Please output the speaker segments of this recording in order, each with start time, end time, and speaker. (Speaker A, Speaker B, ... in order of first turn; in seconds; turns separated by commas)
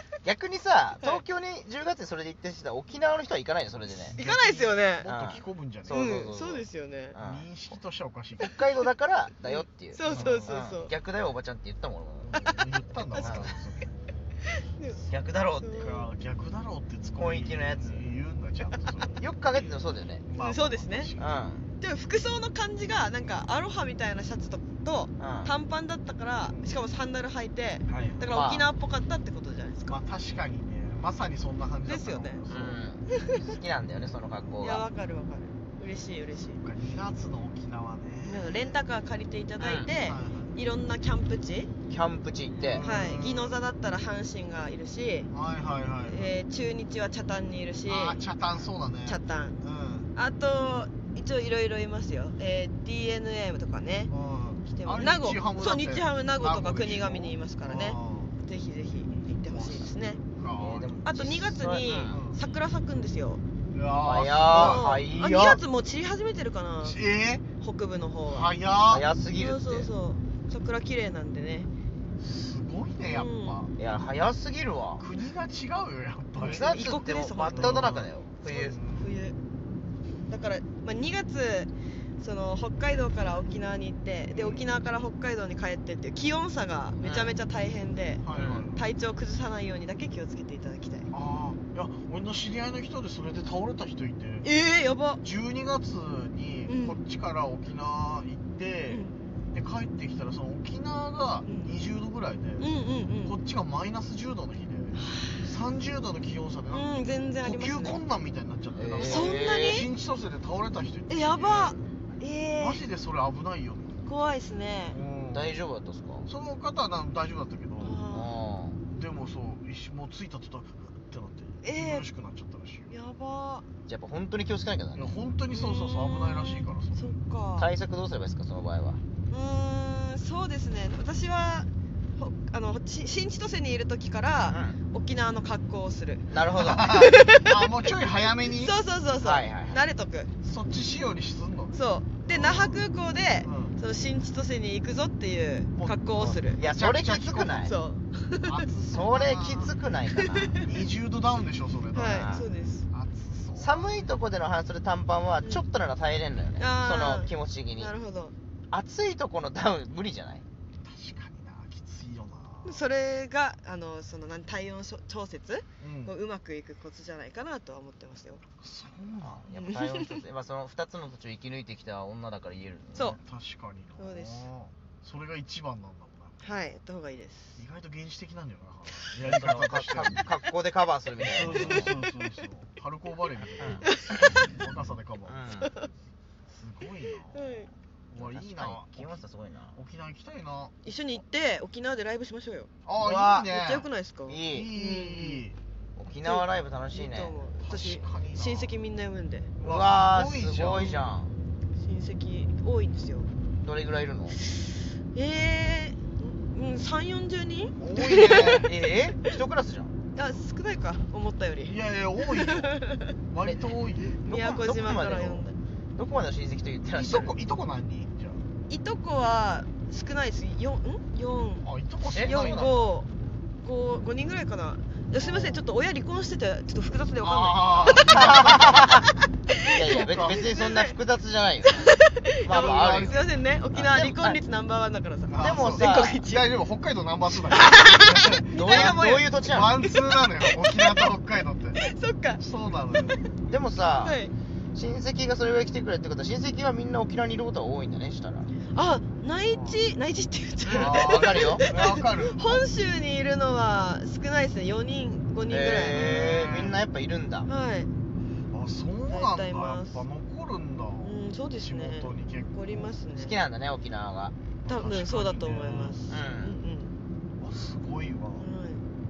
Speaker A: 0.2-4.2, Speaker B: 4.0-6.2, Speaker C: 4.2-5.1, Speaker A: 5.1-7.5, Speaker C: 5.9-7.2, Speaker B: 7.2-8.6, Speaker A: 8.4-12.3, Speaker C: 9.4-10.9, Speaker B: 10.1-10.6, Speaker B: 12.3-13.9, Speaker C: 12.3-13.6, Speaker A: 13.2-13.5, Speaker C: 14.8-15.0, Speaker A: 15.1-15.9, Speaker C: 15.6-16.1, Speaker B: 15.8-19.3, Speaker A: 17.1-18.1, Speaker A: 19.2-20.2, Speaker B: 20.2-21.4, Speaker C: 20.4-21.1, Speaker A: 21.2-21.7, Speaker C: 21.8-30.0, Speaker A: 25.2-25.5, Speaker B: 26.4-26.7, Speaker B: 27.9-28.3, Speaker A: 28.3-28.7, Speaker B: 29.9-32.8, Speaker C: 31.9-32.4, Speaker A: 32.5-34.9, Speaker C: 34.6-36.6, Speaker B: 36.6-38.7, Speaker C: 38.3-41.7, Speaker A: 39.6-39.9, Speaker B: 40.0-40.5, Speaker A: 41.9-42.8, Speaker B: 42.6-43.6, Speaker C: 42.8-45.3, Speaker B: 45.3-46.3, Speaker C: 46.1-48.2, Speaker B: 47.9-50.1, Speaker C: 49.1-49.6, Speaker C: 50.1-54.1, Speaker B: 54.1-58.3, Speaker C: 54.7-60.2, Speaker B: 59.5-61.0, Speaker A: 60.6-62.2, Speaker C: 61.0-63.4, Speaker B: 62.1-62.4, Speaker B: 63.7-64.9, Speaker A: 64.0-65.6, Speaker C: 64.5-67.0, Speaker B: 66.8-67.4, Speaker C: 67.6-68.5, Speaker B: 68.3-69.0, Speaker A: 68.9-69.9, Speaker C: 69.3-71.7, Speaker B: 72.2-73.7, Speaker C: 73.0-73.7, Speaker A: 73.8-75.0, Speaker B: 75.0-76.8, Speaker C: 76.4-77.8, Speaker A: 76.4-78.8, Speaker B: 77.5-79.2, Speaker C: 79.0-79.4, Speaker C: 80.3-91.1, Speaker B: 84.3-84.7, Speaker A: 87.0-87.3, Speaker B: 88.2-88.9, Speaker A: 88.3-88.7, Speaker B: 91.1-94.5, Speaker C: 94.4-95.2, Speaker B: 95.2-102.7, Speaker C: 96.7-97.0, Speaker C: 101.5-101.7, Speaker C: 102.6-103.4, Speaker B: 103.2-106.8, Speaker C: 105.0-105.5, Speaker C: 106.7-108.0, Speaker B: 107.4-111.8, Speaker A: 108.8-109.8, Speaker C: 109.0-109.9, Speaker C: 111.1-112.8, Speaker B: 112.6-114.0, Speaker C: 114.0-115.0, Speaker B: 114.9-115.5, Speaker A: 115.3-116.3, Speaker B: 116.3-118.0, Speaker C: 117.8-118.4, Speaker A: 118.1-118.8, Speaker B: 118.9-122.9, Speaker C: 121.6-122.1, Speaker C: 122.9-123.7, Speaker A: 123.9-125.1, Speaker B: 125.0-127.1, Speaker C: 125.5-127.7, Speaker A: 127.6-129.0, Speaker C: 129.3-137.7, Speaker A: 134.5-134.8, Speaker A: 136.3-137.0, Speaker B: 136.6-138.8, Speaker C: 138.5-140.3, Speaker A: 139.2-139.8, Speaker B: 140.4-142.8, Speaker C: 141.7-146.6, Speaker B: 143.4-143.8, Speaker B: 145.8-147.7, Speaker A: 146.6-147.7, Speaker C: 147.5-148.7, Speaker B: 148.4-149.8, Speaker A: 148.9-150.6, Speaker C: 150.2-150.7, Speaker B: 150.6-154.0, Speaker C: 151.9-152.9, Speaker A: 152.0-152.5, Speaker A: 153.6-157.9, Speaker C: 156.6-158.3, Speaker A: 158.7-160.4, Speaker B: 160.8-162.8, Speaker C: 162.6-168.4, Speaker B: 165.8-166.1, Speaker B: 168.6-169.4, Speaker A: 169.2-173.2, Speaker C: 169.6-170.2, Speaker B: 173.2-176.7, Speaker C: 174.0-174.5, Speaker C: 176.4-177.6, Speaker B: 177.6-180.3, Speaker A: 179.2-181.9, Speaker B: 181.2-185.4, Speaker C: 181.6-181.9, Speaker A: 183.6-183.9, Speaker C: 183.9-184.3, Speaker A: 185.3-185.7, Speaker B: 186.6-189.2, Speaker C: 187.3-187.7, Speaker A: 188.2-189.8, Speaker B: 189.8-190.7, Speaker C: 190.8-192.7, Speaker B: 192.8-193.9, Speaker A: 193.0-193.5, Speaker C: 193.5-195.4, Speaker A: 194.3-194.7, Speaker B: 194.5-195.6, Speaker A: 196.0-197.3, Speaker C: 196.2-199.5, Speaker B: 197.6-198.8, Speaker B: 199.6-201.1, Speaker A: 199.6-201.3, Speaker C: 201.8-203.3, Speaker A: 203.6-204.4, Speaker C: 204.5-208.7, Speaker B: 207.8-208.7, Speaker A: 208.2-209.9, Speaker C: 210.2-213.2, Speaker B: 211.7-214.2, Speaker C: 214.2-215.6, Speaker A: 214.3-217.3, Speaker B: 216.9-218.4, Speaker C: 218.7-221.7, Speaker B: 221.6-222.9, Speaker A: 222.1-222.7, Speaker C: 222.2-228.8, Speaker B: 225.2-225.6, Speaker B: 227.2-228.9, Speaker A: 228.3-229.0, Speaker A: 229.7-234.4, Speaker C: 229.8-231.0, Speaker B: 229.9-230.4, Speaker C: 231.7-236.4, Speaker B: 232.5-233.2, Speaker B: 235.3-241.8, Speaker A: 235.4-236.2, Speaker C: 237.5-241.1, Speaker A: 238.6-239.7, Speaker C: 241.8-243.2, Speaker B: 242.4-243.2, Speaker A: 243.5-244.2, Speaker C: 244.0-244.3, Speaker A: 244.7-248.5, Speaker C: 248.7-256.1, Speaker B: 249.4-249.8, Speaker A: 250.7-251.7, Speaker B: 250.8-252.6, Speaker A: 255.5-257.5, Speaker B: 255.9-256.8, Speaker C: 257.5-257.9, Speaker B: 258.5-262.9, Speaker C: 259.1-260.0, Speaker C: 261.0-263.4, Speaker A: 263.2-264.4, Speaker B: 264.6-266.0, Speaker C: 264.7-266.9, Speaker A: 266.1-266.6, Speaker B: 267.4-268.5, Speaker C: 268.4-268.8